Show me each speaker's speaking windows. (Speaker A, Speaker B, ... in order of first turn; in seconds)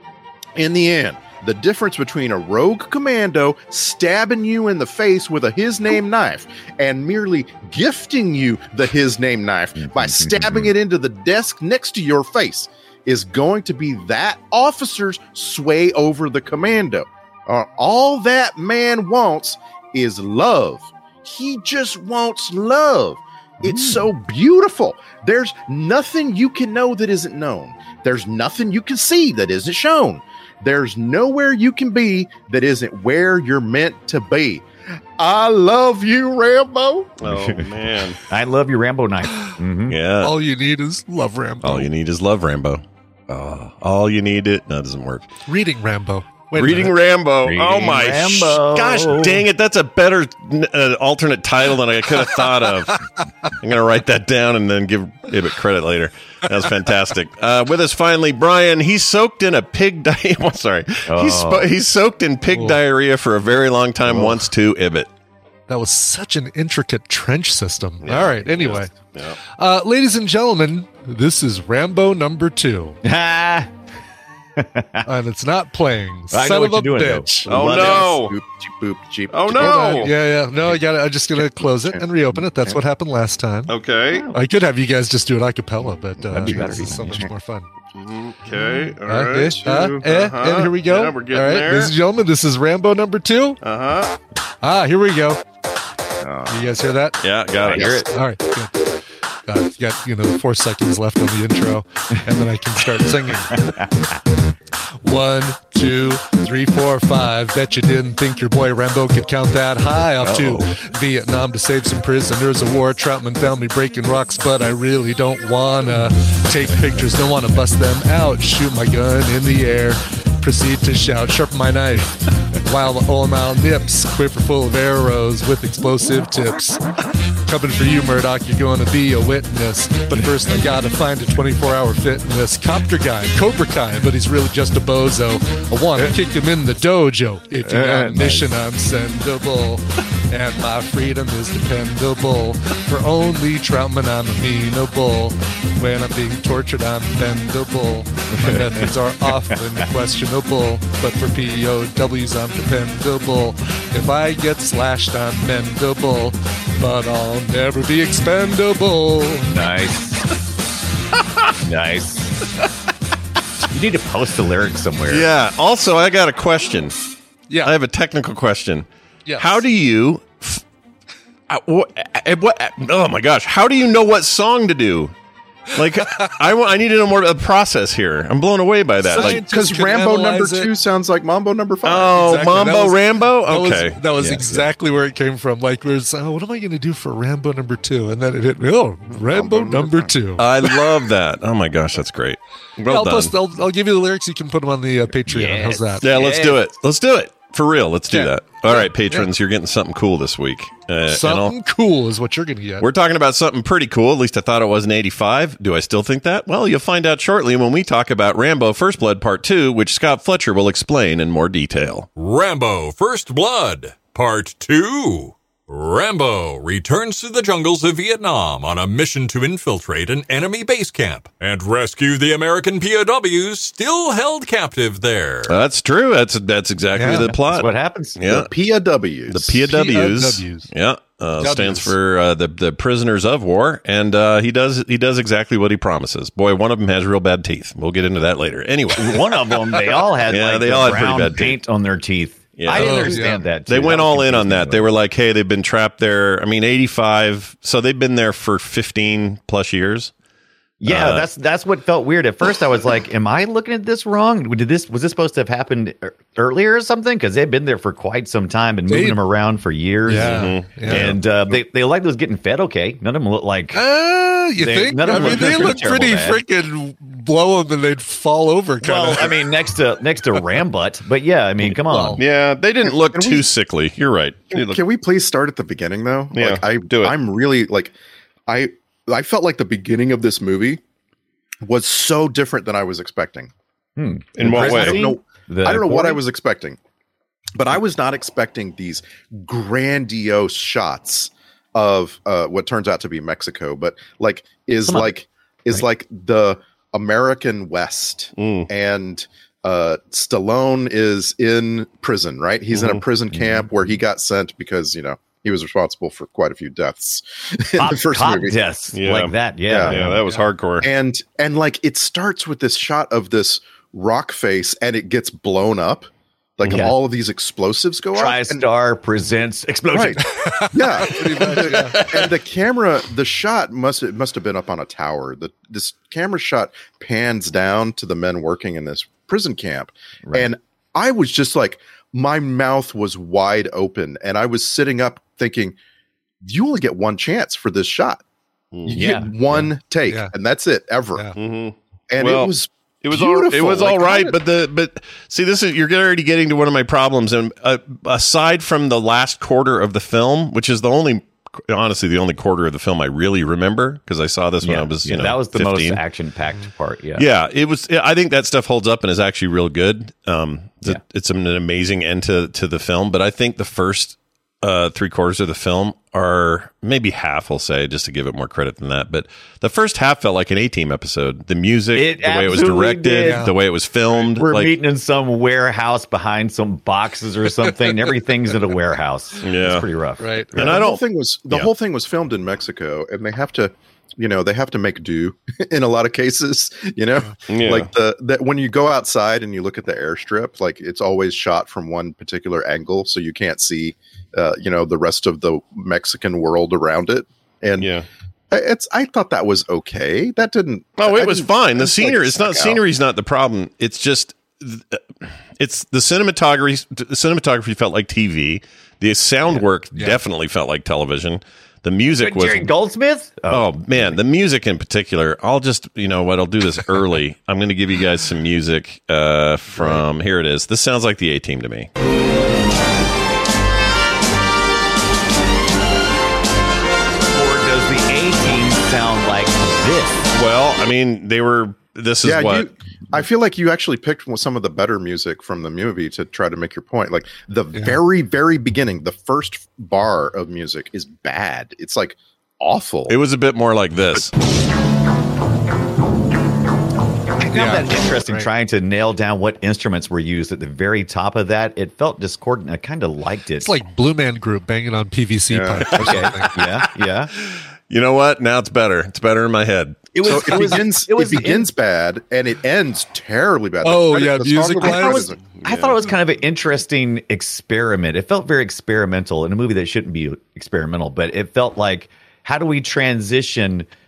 Speaker A: 0.6-34.6, 35.2-37.2, 77.5-80.1, 86.3-87.2, 96.2-96.9, 97.7-98.0, 179.1-182.5, 189.2-190.1, 228.3-229.6, 272.8-273.5, 274.5-277.9, 278.5-280.8, 281.6-283.5, 284.4-286.8, 287.6-308.5, 309.7-310.0, 310.8-316.1, 316.6-318.6, 319.9-335.8, 336.4-338.2, 338.9-341.3, 342.1-344.4, 380.5-397.9, 398.5-402.8, 432.2-443.1, 455.5-456.3, 460.2-465.4
Speaker B: 9.8-10.7, 23.6-24.1, 37.2-40.0, 47.4-49.5, 61.0-61.7, 64.0-64.4, 73.0-73.7, 74.6-75.1, 76.3-78.3, 86.3-87.3, 97.6-98.1, 103.5-103.9, 110.2-110.7, 137.7-138.5, 148.4-148.8, 159.5-160.3, 161.6-162.4, 163.7-165.3, 184.2-184.5, 195.3-196.6, 227.0-228.2, 238.9-244.9, 250.8-263.8, 264.6-266.4, 268.8-272.2, 284.0-286.2, 294.8-295.1, 303.3-303.8, 307.8-310.2, 316.6-316.9, 318.1-320.2, 330.2-330.5, 338.9-339.7, 354.6-357.3, 371.9-373.5, 374.3-380.7, 412.2-414.2, 419.8-420.0, 427.3-430.3, 447.4-453.8, 455.9-457.3, 460.1-461.7, 464.8-473.9
Speaker C: 37.2-38.2, 39.9-40.4, 41.6-45.3, 46.5-53.0, 53.6-65.1, 68.0-69.4, 77.5-78.3, 79.3-80.1, 83.7-84.2, 87.9-91.9, 93.6-94.1, 97.2-98.0, 165.1-166.9, 167.6-168.8, 169.4-170.6, 171.5-175.1, 175.7-179.4, 181.8-184.4, 190.4-193.3, 196.0-201.5, 202.8-212.1, 225.5-228.5, 229.3-239.7, 240.2-241.6, 242.6-250.1, 250.8-251.2, 260.1-261.6, 265.1-265.7, 272.2-274.8, 276.3-277.1, 284.4-285.0, 298.4-298.7, 302.7-303.0, 308.9-310.9, 316.6-316.9, 338.7-339.0, 341.4-356.0, 357.1-374.7, 379.4-379.9, 380.5-381.7, 387.5-387.9, 397.8-398.1, 401.0-405.0, 405.6-412.7, 413.5-421.9, 430.3-432.7, 443.1-444.3, 457.5-460.1, 465.5-466.0
Speaker D: 40.2-41.9, 45.5-46.9, 62.5-62.8, 65.7-68.9, 69.6-73.0, 75.0-77.5, 79.6-83.7, 84.3-87.7, 89.1-93.6, 94.6-95.4, 96.5-97.2, 98.1-98.8, 99.5-103.7, 105.0-126.8, 127.4-159.5, 179.0-180.7, 182.2-190.5, 192.9-196.1, 198.1-199.3, 201.1-202.9, 226.9-227.3, 229.7-230.7, 231.4-231.9, 242.7-243.4, 258.9-259.2, 260.1-261.1, 263.7-269.4, 271.8-272.2, 320.2-322.0, 340.1-340.3, 373.2-373.5, 380.2-380.5, 437.7-438.0, 447.4-448.5, 453.6-456.6, 463.8-465.3
Speaker E: 212.2-225.6